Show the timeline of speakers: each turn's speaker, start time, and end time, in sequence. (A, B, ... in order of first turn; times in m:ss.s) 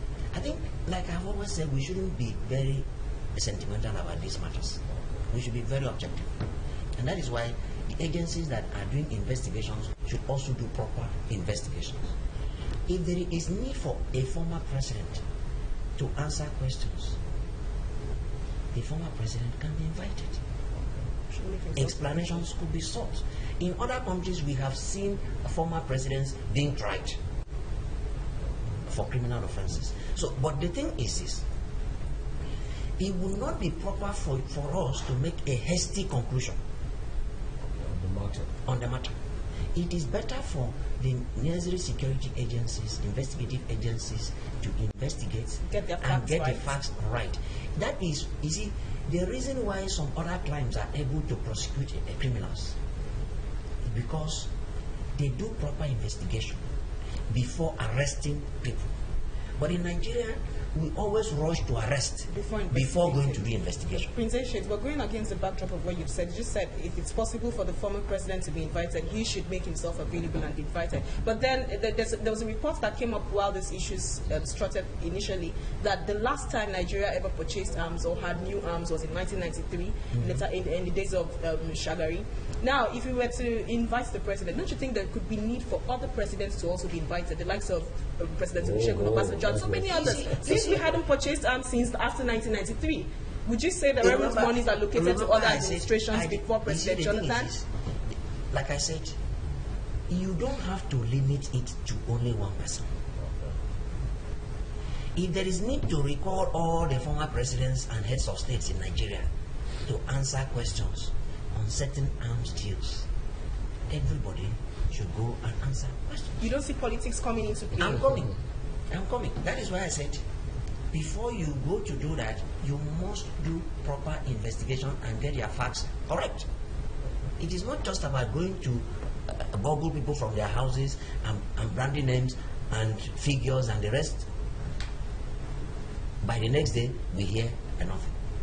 0:00.3-0:06.4 A
0:07.0-0:12.1 A
0:12.9-0:15.2 A
0:16.0-0:17.2 A
0:18.7-0:20.4 A
0:21.3-0:22.4 B
0:21.8-0:27.2 A
0:28.8-0:31.4 A
0:33.0-0:36.6 A
0:37.6-0:38.5 C
0:38.6-0:39.2 A
0:39.7-0:52.8 A
0:45.6-0:46.7 B
0:53.8-0:54.5 A
0:55.2-0:56.6 A
0:57.3-0:58.9 A
0:59.6-1:04.1 A
1:02.3-1:37.5 B
1:28.6-1:30.0 C
1:29.9-1:30.8 A
1:34.0-1:37.6 A
1:38.5-1:39.2 A
1:40.1-1:42.9 A
1:43.2-1:43.5 C
1:45.1-1:49.3 A
1:49.8-1:53.1 A
1:53.9-1:56.4 A
1:56.4-1:58.3 B
1:57.8-1:58.3 A
1:58.9-2:00.2 A
2:00.9-2:06.5 A
2:07.4-2:14.3 A
2:16.2-2:18.1 A